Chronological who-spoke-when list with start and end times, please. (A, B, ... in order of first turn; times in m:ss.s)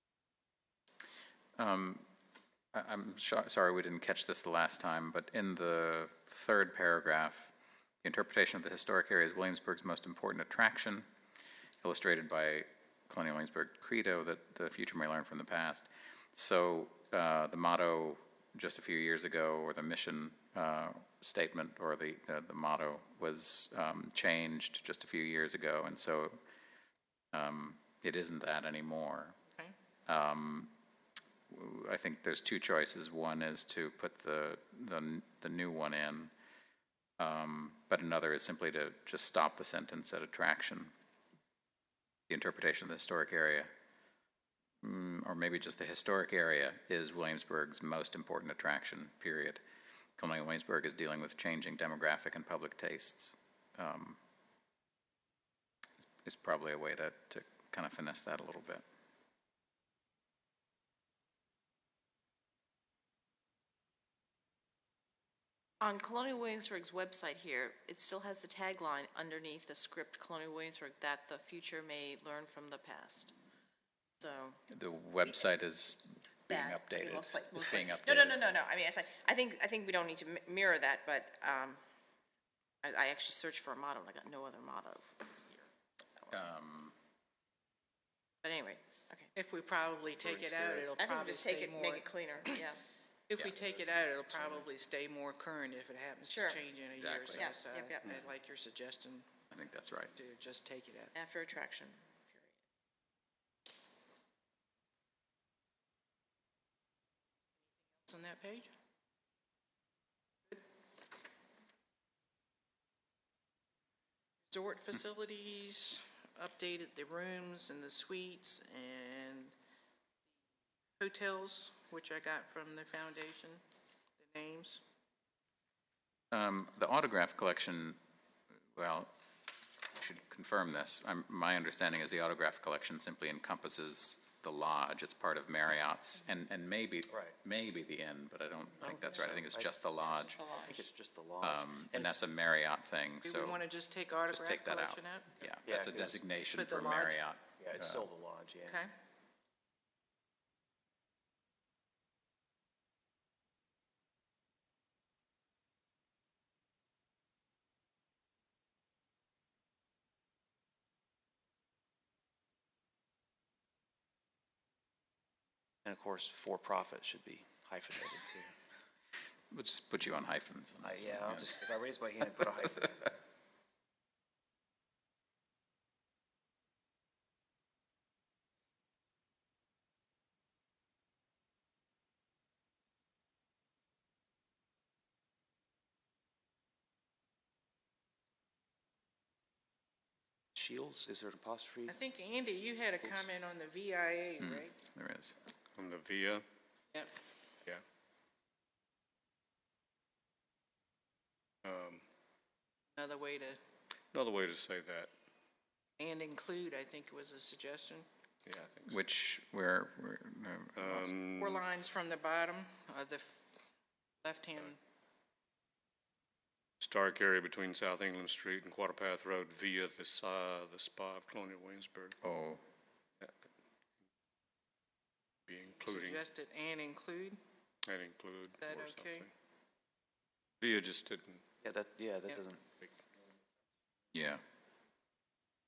0:01.6-0:02.0 A
0:02.7-0:11.0 A
0:11.8-0:26.4 A
0:27.3-0:29.4 A
0:30.1-0:30.7 A
0:31.5-0:36.3 A
0:37.2-0:40.9 A
0:42.3-0:43.7 A
0:44.8-0:49.6 A
0:50.2-0:54.2 A
0:56.2-0:58.8 A
1:05.8-1:13.3 B
1:14.2-1:14.6 B
1:14.7-1:18.4 A
1:17.6-1:21.8 B
1:22.8-1:25.7 B
1:26.2-1:26.4 B
1:26.3-1:26.9 A
1:28.4-1:29.3 B
1:29.3-1:32.1 C
1:30.2-1:30.9 D
1:31.0-1:32.8 B
1:33.3-1:39.3 C
1:33.4-1:34.6 A
1:36.3-1:36.6 B
1:37.0-1:37.5 A
1:37.3-1:38.1 B
1:38.0-1:38.3 E
1:39.5-1:40.1 A
1:40.1-1:41.1 C
1:41.1-1:42.5 B
1:48.0-1:48.7 C
1:54.5-1:59.5 C
2:01.0-2:03.6 C
2:04.2-2:04.8 C
2:06.3-2:08.0 A
2:08.7-2:09.1 A
2:09.9-2:20.4 A
2:18.8-2:19.7 D
2:20.2-2:20.7 B
2:20.5-2:22.2 D
2:21.4-2:23.6 A
2:23.2-2:25.5 C
2:24.3-2:28.1 A
2:25.6-2:26.2 D
2:26.5-2:27.2 C
2:27.6-2:28.8 D
2:45.8-2:48.5 D
2:49.5-2:51.5 A
2:50.8-2:53.1 D
3:10.6-3:11.9 D
3:11.9-3:14.7 C
3:14.4-3:15.4 A
3:15.8-3:16.4 E
3:21.6-3:22.0 E
3:22.9-3:23.6 C
3:24.1-3:25.1 E
3:26.0-3:28.0 C
3:28.4-3:28.9 E
3:28.9-3:31.2 A
3:30.8-3:31.6 E
3:31.4-3:33.6 C
3:34.2-3:34.8 C
3:36.8-3:42.2 E
3:42.2-3:42.6 A
3:45.5-3:46.2 E
3:45.8-3:47.4 C
3:47.9-3:49.3 E
3:48.5-3:49.3 C
3:50.6-3:51.4 E
3:51.6-3:52.6 D
3:54.1-3:54.4 A